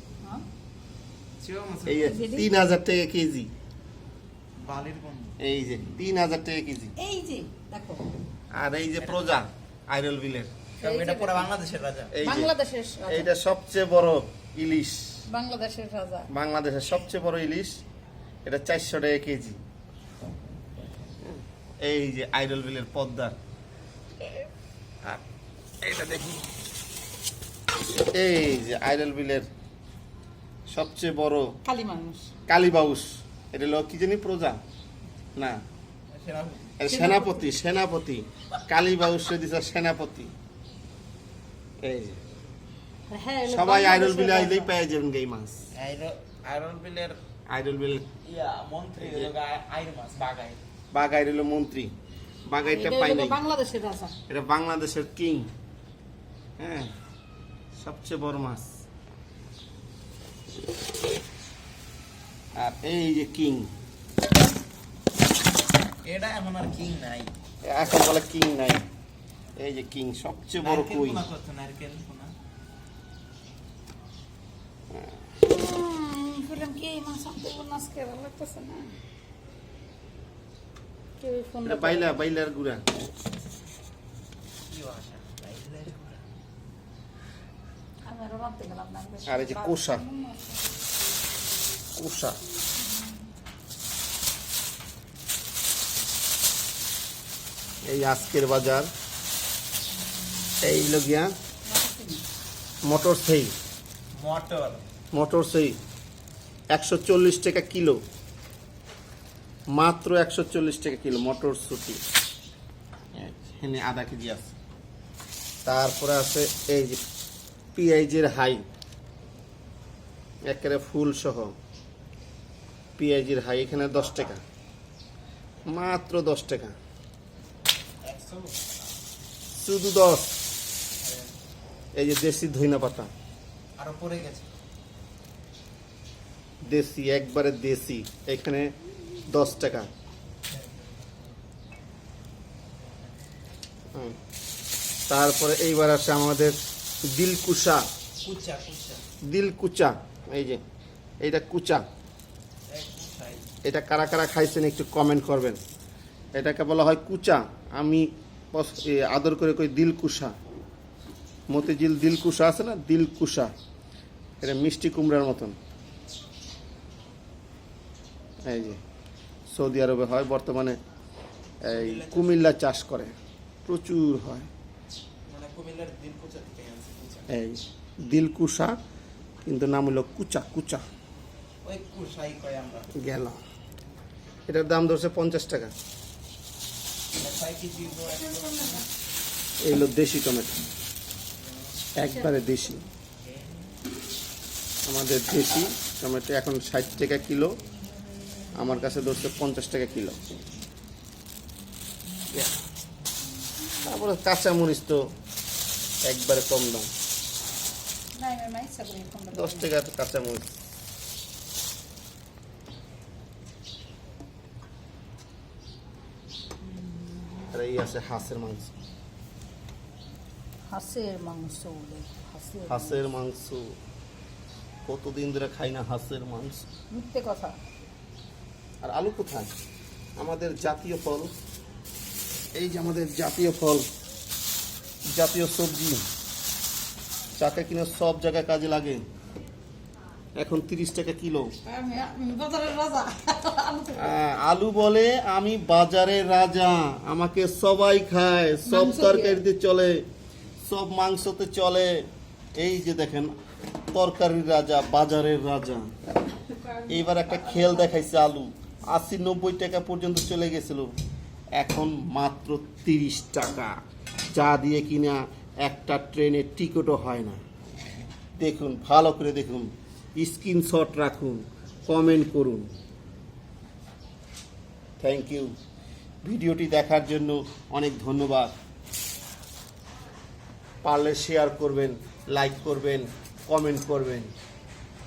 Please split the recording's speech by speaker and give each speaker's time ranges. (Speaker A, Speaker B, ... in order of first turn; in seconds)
Speaker A: 1.4-2.2, 4.6-5.3, 10.8-12.1, 36.1-36.8, 45.7-47.2, 48.2-50.6, 66.0-67.3, 70.6-72.3, 84.7-86.2, 104.2-104.8, 125.6-125.9, 128.0-128.6, 131.0-131.3, 133.8-134.5, 140.5-141.4, 142.7-143.2, 148.2-149.0, 152.7-153.5, 171.7-172.5, 175.3-177.3, 181.6-182.9, 187.2-188.8, 191.4-191.8, 193.2-193.7
Speaker B: 1.9-3.5, 5.4-6.9, 8.5-10.5, 12.1-12.5, 13.1-15.2, 16.3-17.8, 18.4-19.6, 21.3-23.3, 25.8-26.4, 28.0-29.5, 30.7-31.5, 32.5-34.6, 35.3-35.6, 36.8-40.3, 41.8-42.2, 43.4-45.6, 47.5-48.0, 49.0-49.3, 50.9-51.9, 52.5-53.4, 54.3-55.5, 56.6-56.9, 57.7-58.8, 62.5-63.7, 67.6-68.8, 69.6-71.2, 81.6-82.8, 89.3-90.0, 91.9-92.4, 97.8-98.9, 100.6-101.3, 102.8-103.5, 105.1-105.8, 106.7-108.0, 109.7-112.0, 113.2-114.5, 115.6-117.0, 117.7-118.6, 120.5-121.5, 123.0-124.4, 125.7-126.7, 129.6-130.4, 131.9-133.1, 136.6-138.7, 139.3-139.9, 145.1-147.8, 149.2-150.6, 151.2-151.8, 153.6-155.6, 156.3-160.3, 161.5-163.5, 164.4-165.6, 168.4-168.8, 169.5-170.8, 171.6-173.1, 173.7-174.5, 177.3-178.8, 179.4-180.8, 182.9-183.4, 184.5-185.7, 189.6-190.6, 191.9-192.8, 194.8-197.5, 198.6-200.2, 203.8-205.0, 206.0-206.9, 209.3-210.5, 217.5-218.7, 222.7-223.7, 224.8-226.6, 228.8-229.5, 230.2-231.3, 232.5-233.8, 235.1-236.0, 237.4-239.0, 240.3-241.5, 243.9-250.0, 250.6-253.3, 253.9-255.9, 256.9-260.9, 261.5-263.7, 264.3-267.4, 268.4-272.7, 275.0-275.5, 276.2-278.5, 280.8-284.3
Speaker C: 2.0-2.6, 7.0-8.1, 10.8-11.5, 12.2-13.3, 15.3-16.3, 31.6-32.3, 36.8-37.5, 43.1-44.7, 52.6-54.1, 75.4-78.9, 81.2-82.2, 88.0-90.7, 101.7-102.2, 188.2-188.8, 192.1-192.8, 208.1-209.7, 216.7-217.4, 220.7-223.0, 226.9-227.5, 241.6-244.1, 248.6-249.4, 256.4-258.0